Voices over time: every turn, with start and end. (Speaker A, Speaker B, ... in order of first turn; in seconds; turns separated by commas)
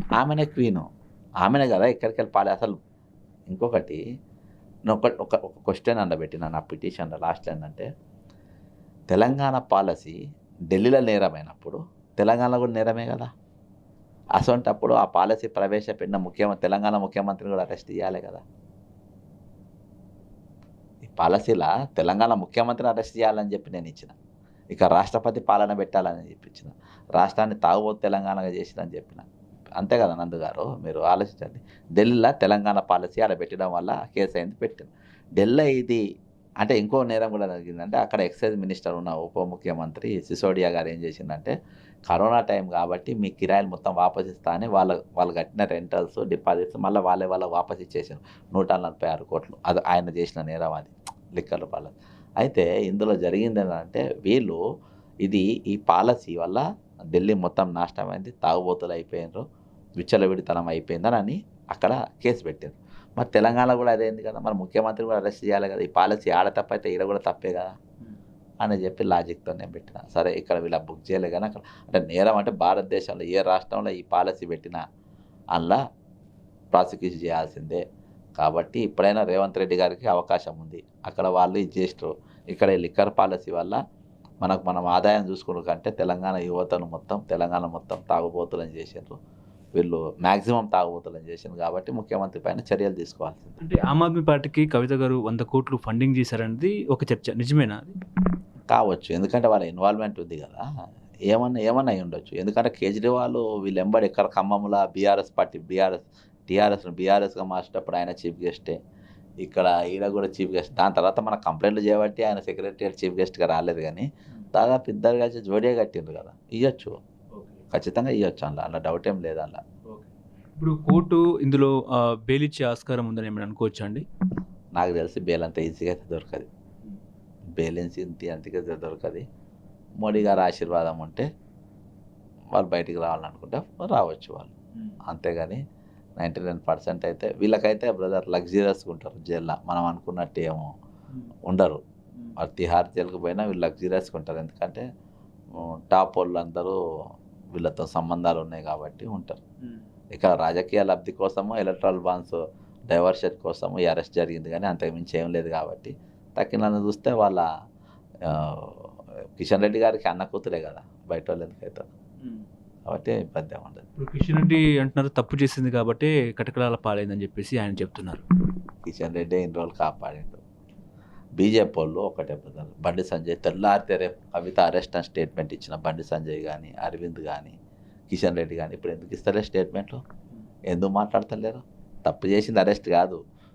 Speaker A: 0.2-0.8, Speaker A: 1.4-2.8, Speaker A: 3.5-4.0, Speaker A: 4.9-7.9, Speaker A: 9.1-10.2, Speaker A: 10.7-13.3, Speaker A: 14.4-18.4, Speaker A: 21.0-24.1, Speaker A: 24.7-29.3, Speaker A: 29.8-36.0, Speaker A: 36.6-41.5, Speaker A: 42.1-54.6, Speaker A: 55.2-56.6, Speaker A: 57.1-59.4, Speaker A: 60.0-67.7, Speaker A: 68.6-74.8, Speaker A: 75.5-75.8, Speaker A: 76.7-77.8, Speaker A: 78.4-83.8, Speaker A: 84.4-89.2, Speaker A: 89.8-93.6, Speaker B: 93.6-98.0, Speaker A: 98.7-100.6, Speaker A: 101.3-108.8, Speaker A: 109.4-117.0, Speaker B: 117.3-117.6, Speaker A: 117.7-119.6, Speaker B: 119.9-121.8, Speaker B: 122.3-124.0, Speaker A: 124.8-126.5, Speaker A: 127.6-129.2, Speaker A: 130.0-131.3, Speaker A: 132.5-134.5, Speaker A: 135.0-135.6, Speaker A: 136.2-140.7, Speaker A: 141.5-141.8, Speaker A: 142.4-144.8, Speaker A: 145.5-146.8, Speaker A: 147.5-149.4, Speaker B: 149.6-149.9, Speaker A: 150.1-157.5, Speaker A: 158.2-161.9, Speaker B: 162.2-162.5, Speaker A: 162.9-163.9, Speaker B: 164.0-168.2, Speaker A: 168.9-170.4, Speaker A: 171.4-177.6, Speaker A: 178.1-180.0, Speaker A: 180.7-183.2